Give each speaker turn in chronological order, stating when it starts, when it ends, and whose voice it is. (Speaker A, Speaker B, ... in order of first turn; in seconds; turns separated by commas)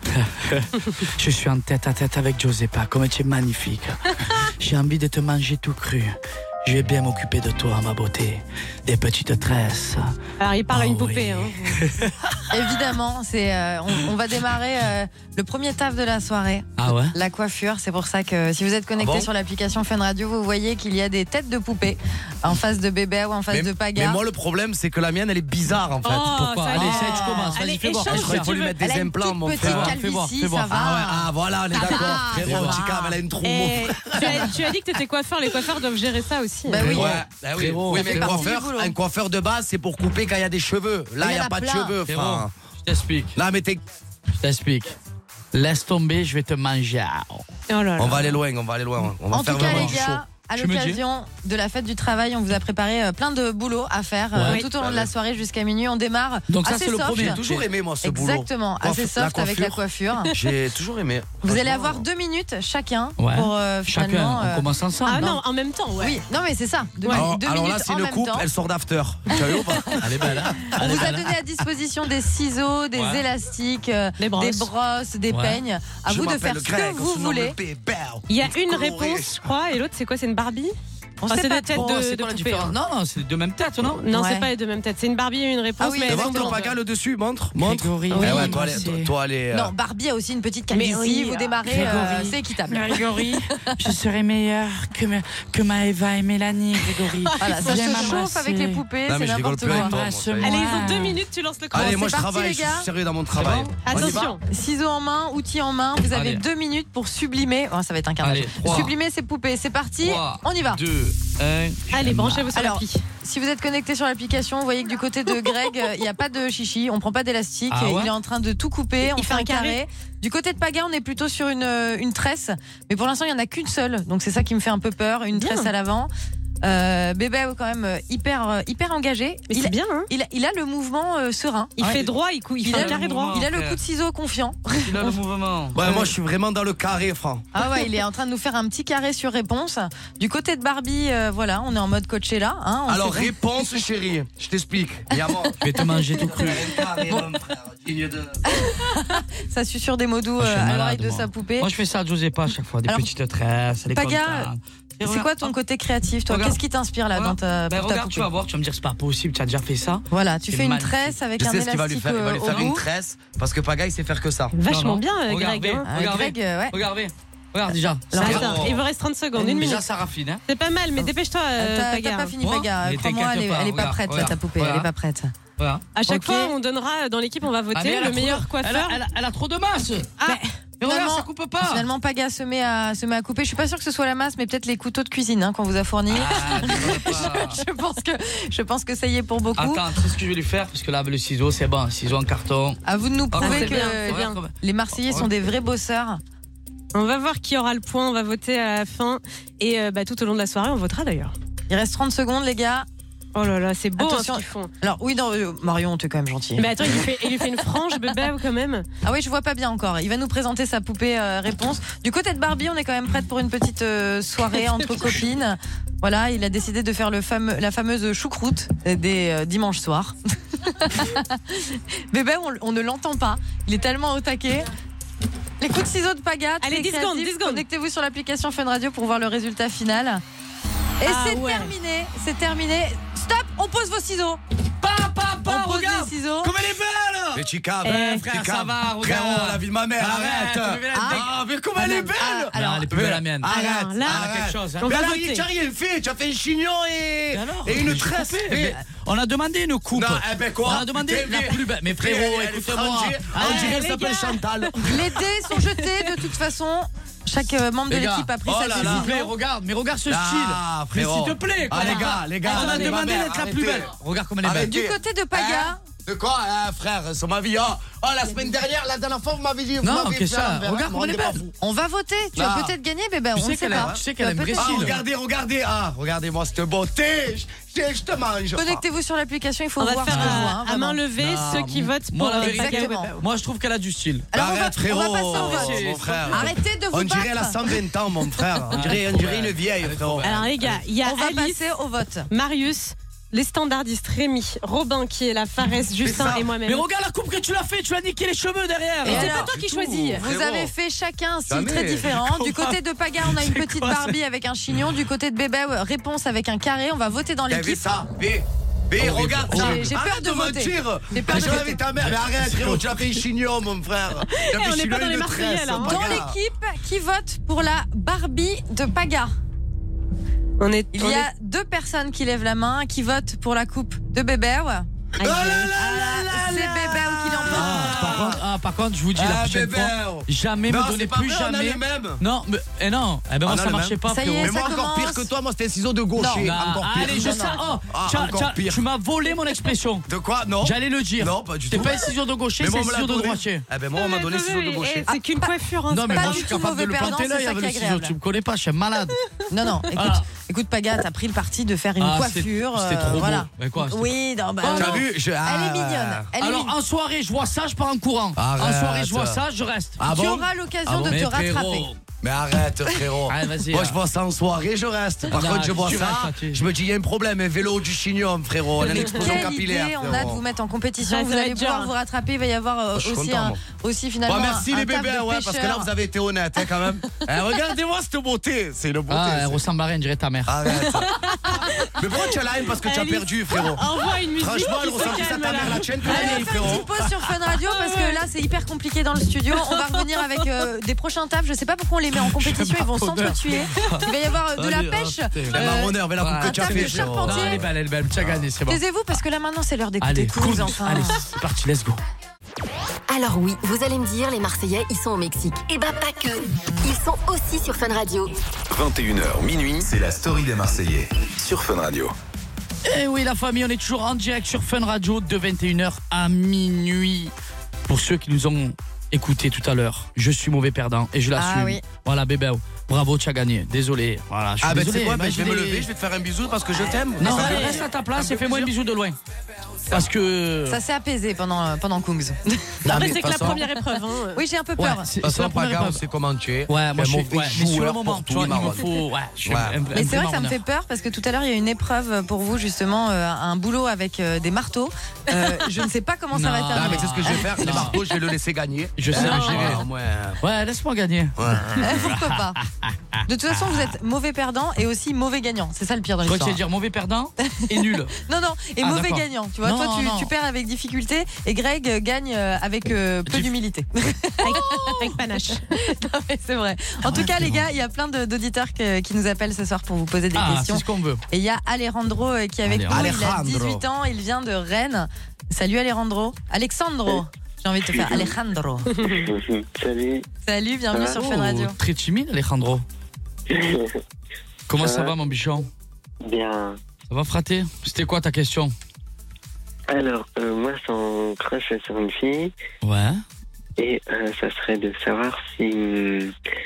Speaker A: 0.1-10.1, Speaker B: 10.4-11.8, Speaker A: 10.7-12.4, Speaker C: 12.5-24.2, Speaker A: 16.8-17.1, Speaker D: 19.0-19.3, Speaker D: 23.5-27.0, Speaker B: 26.0-28.8, Speaker A: 26.1-28.6, Speaker C: 27.0-27.6, Speaker D: 28.1-30.0, Speaker C: 28.8-33.2, Speaker A: 29.6-30.7, Speaker D: 30.7-34.6, Speaker B: 31.8-32.2, Speaker A: 32.2-32.8, Speaker B: 33.4-36.8, Speaker C: 36.7-37.2, Speaker A: 36.8-38.5, Speaker D: 36.8-42.5, Speaker C: 37.9-38.9, Speaker C: 41.2-41.9, Speaker A: 42.0-43.4, Speaker D: 43.4-43.8, Speaker A: 44.4-44.9, Speaker A: 45.5-47.5, Speaker B: 47.7-48.4, Speaker D: 48.0-50.2, Speaker C: 49.3-57.4, Speaker A: 49.5-51.0, Speaker A: 54.3-54.6, Speaker D: 54.8-55.1, Speaker A: 56.5-57.6, Speaker D: 57.1-62.0, Speaker C: 58.0-60.3, Speaker C: 61.4-64.7, Speaker A: 63.2-65.3, Speaker B: 65.0-66.2, Speaker C: 66.0-68.5, Speaker D: 67.1-71.1, Speaker A: 70.0-71.3, Speaker C: 70.8-77.5, Speaker A: 72.9-73.2, Speaker B: 74.2-74.7, Speaker A: 75.3-75.6, Speaker D: 76.0-79.4, Speaker B: 78.3-80.7, Speaker C: 81.2-81.9, Speaker B: 81.3-82.7, Speaker A: 81.7-84.0, Speaker B: 84.0-86.7, Speaker C: 84.1-84.5, Speaker C: 85.8-86.6, Speaker D: 86.1-89.7, Speaker A: 87.5-89.1, Speaker B: 88.1-88.6, Speaker C: 88.2-88.4, Speaker C: 89.5-93.2, Speaker B: 90.7-92.2, Speaker A: 91.6-98.8, Speaker B: 97.2-98.2, Speaker C: 97.4-100.0, Speaker D: 99.0-100.7, Speaker A: 99.6-101.1, Speaker B: 100.4-102.1, Speaker D: 101.7-104.3, Speaker C: 101.7-102.9, Speaker A: 103.3-104.2, Speaker B: 103.8-104.4, Speaker C: 104.5-110.8, Speaker A: 106.1-106.4, Speaker A: 108.2-108.9, Speaker A: 110.0-112.5, Speaker B: 111.9-113.0, Speaker C: 112.5-126.1, Speaker A: 117.7-118.1, Speaker B: 119.2-119.8, Speaker B: 125.3-125.7, Speaker C: 126.6-131.8, Speaker B: 129.5-130.1, Speaker B: 131.8-133.4, Speaker A: 131.8-132.1, Speaker C: 132.6-135.2, Speaker A: 132.7-133.8, Speaker A: 134.7-135.8, Speaker D: 135.7-137.4, Speaker C: 137.5-143.3, Speaker D: 142.9-145.6, Speaker A: 145.6-147.2, Speaker D: 146.1-148.4, Speaker C: 148.5-151.7, Speaker A: 150.4-155.5, Speaker C: 153.9-154.5, Speaker C: 155.0-158.3, Speaker A: 156.3-156.6, Speaker A: 157.1-161.2, Speaker C: 160.1-162.8, Speaker D: 161.4-164.5, Speaker A: 162.4-162.7, Speaker B: 164.5-165.9, Speaker A: 164.7-168.7, Speaker C: 165.9-166.8, Speaker C: 168.1-168.4, Speaker B: 168.1-169.8, Speaker D: 168.2-168.8, Speaker A: 169.3-170.4, Speaker B: 170.5-172.3, Speaker C: 171.6-175.3, Speaker A: 172.4-174.9, Speaker A: 175.6-175.9, Speaker B: 175.9-179.0, Speaker C: 176.1-176.5, Speaker A: 177.7-180.3, Speaker B: 180.2-180.5, Speaker C: 180.3-189.8, Speaker A: 180.8-181.8, Speaker A: 186.1-187.6, Speaker A: 189.6-195.3, Speaker C: 192.8-196.2, Speaker B: 193.4-194.4, Speaker B: 196.9-201.3, Speaker C: 201.7-202.9, Speaker B: 203.3-204.7, Speaker C: 204.0-207.0, Speaker B: 206.6-208.9, Speaker C: 209.0-224.7, Speaker B: 214.7-215.2, Speaker C: 225.6-230.2, Speaker B: 226.6-227.6, Speaker C: 231.0-234.4, Speaker B: 231.0-231.7, Speaker A: 234.8-241.3, Speaker C: 235.4-236.5, Speaker D: 237.3-248.8, Speaker B: 237.8-238.2, Speaker C: 240.9-241.2, Speaker C: 241.8-242.8, Speaker A: 242.5-244.9, Speaker B: 243.5-245.4, Speaker A: 247.3-253.8, Speaker D: 249.9-254.9, Speaker B: 253.4-256.1, Speaker C: 254.8-259.3, Speaker A: 257.9-264.8, Speaker D: 258.4-259.1, Speaker D: 260.1-263.9, Speaker D: 264.4-271.5, Speaker C: 264.6-265.8, Speaker A: 269.8-271.5, Speaker C: 271.6-275.0, Speaker D: 272.4-272.7, Speaker A: 273.3-275.0, Speaker D: 273.7-274.0, Speaker D: 274.6-278.8, Speaker C: 278.5-281.0, Speaker B: 279.8-283.1, Speaker A: 280.1-280.5, Speaker A: 281.2-284.3, Speaker C: 282.4-283.1, Speaker C: 284.3-287.6, Speaker D: 284.3-290.3, Speaker A: 285.3-286.5, Speaker A: 288.7-290.8, Speaker B: 290.2-291.6, Speaker C: 291.0-292.3, Speaker B: 292.3-296.8, Speaker D: 296.0-296.5, Speaker A: 296.6-299.5, Speaker C: 299.0-307.8, Speaker B: 299.1-300.2, Speaker D: 299.1-300.7, Speaker D: 301.5-302.1, Speaker A: 302.0-304.2, Speaker D: 307.5-316.4, Speaker A: 309.0-309.9, Speaker C: 309.5-311.8, Speaker A: 311.3-313.2, Speaker B: 314.3-316.2, Speaker C: 315.8-319.3, Speaker B: 320.6-321.3, Speaker C: 320.9-324.9, Speaker B: 325.2-325.8, Speaker D: 325.2-328.4, Speaker C: 325.8-328.2, Speaker A: 327.5-334.7, Speaker D: 329.1-332.2, Speaker D: 333.4-338.8, Speaker C: 334.1-335.3, Speaker C: 336.1-337.6, Speaker A: 336.4-340.1, Speaker D: 340.1-342.0, Speaker A: 340.6-343.6, Speaker D: 342.6-345.1, Speaker B: 343.9-346.5, Speaker C: 345.1-345.5, Speaker A: 345.9-349.1, Speaker C: 346.1-348.1, Speaker C: 349.5-356.7, Speaker A: 349.9-350.2, Speaker A: 352.0-355.0, Speaker D: 354.7-356.3, Speaker A: 356.4-360.1, Speaker D: 358.4-359.4, Speaker D: 360.0-361.3, Speaker C: 360.1-361.9, Speaker A: 361.0-362.0, Speaker D: 362.2-370.4, Speaker A: 363.3-363.9, Speaker A: 365.3-366.7, Speaker C: 368.9-375.9, Speaker B: 368.9-369.2, Speaker B: 371.0-371.9, Speaker D: 372.9-373.6, Speaker D: 374.2-379.6, Speaker A: 379.1-380.8, Speaker D: 380.4-381.3, Speaker B: 381.3-381.9, Speaker D: 381.9-386.9, Speaker B: 382.8-386.4, Speaker A: 386.0-386.9, Speaker C: 386.1-397.6, Speaker B: 389.7-390.0, Speaker A: 392.2-394.1, Speaker D: 394.6-397.6, Speaker A: 395.3-398.8, Speaker C: 398.7-401.2, Speaker A: 400.0-402.0, Speaker E: 403.1-408.3, Speaker F: 408.7-412.1, Speaker A: 412.8-417.3, Speaker A: 417.9-425.9, Speaker C: 421.4-421.8, Speaker D: 424.6-428.7, Speaker A: 427.2-429.1, Speaker B: 427.2-427.8, Speaker A: 429.9-430.8, Speaker C: 430.7-432.8, Speaker D: 432.8-433.6, Speaker B: 432.9-434.4, Speaker A: 432.9-433.5, Speaker C: 434.3-435.1, Speaker A: 434.8-436.0, Speaker D: 435.2-438.9, Speaker A: 436.7-440.6, Speaker D: 439.4-439.8, Speaker C: 439.9-447.9, Speaker A: 446.3-448.0, Speaker D: 446.7-450.4, Speaker A: 449.0-449.8, Speaker C: 449.1-449.6, Speaker A: 450.4-453.9, Speaker D: 451.4-451.7, Speaker C: 451.8-452.6, Speaker C: 453.3-456.6, Speaker A: 456.2-458.1, Speaker C: 458.2-465.2, Speaker A: 458.8-460.3, Speaker B: 464.4-465.7, Speaker C: 465.7-479.0, Speaker A: 467.1-467.6, Speaker A: 470.3-471.2, Speaker A: 472.6-473.1, Speaker D: 472.9-473.8, Speaker G: 477.8-478.4, Speaker G: 478.9-480.3, Speaker C: 480.4-481.7, Speaker G: 480.9-481.2, Speaker A: 481.1-482.8, Speaker G: 483.5-483.9, Speaker A: 484.7-485.7, Speaker G: 484.8-485.1, Speaker G: 486.2-486.8, Speaker A: 487.1-488.7, Speaker G: 489.9-492.5, Speaker A: 492.8-493.2, Speaker G: 493.8-496.3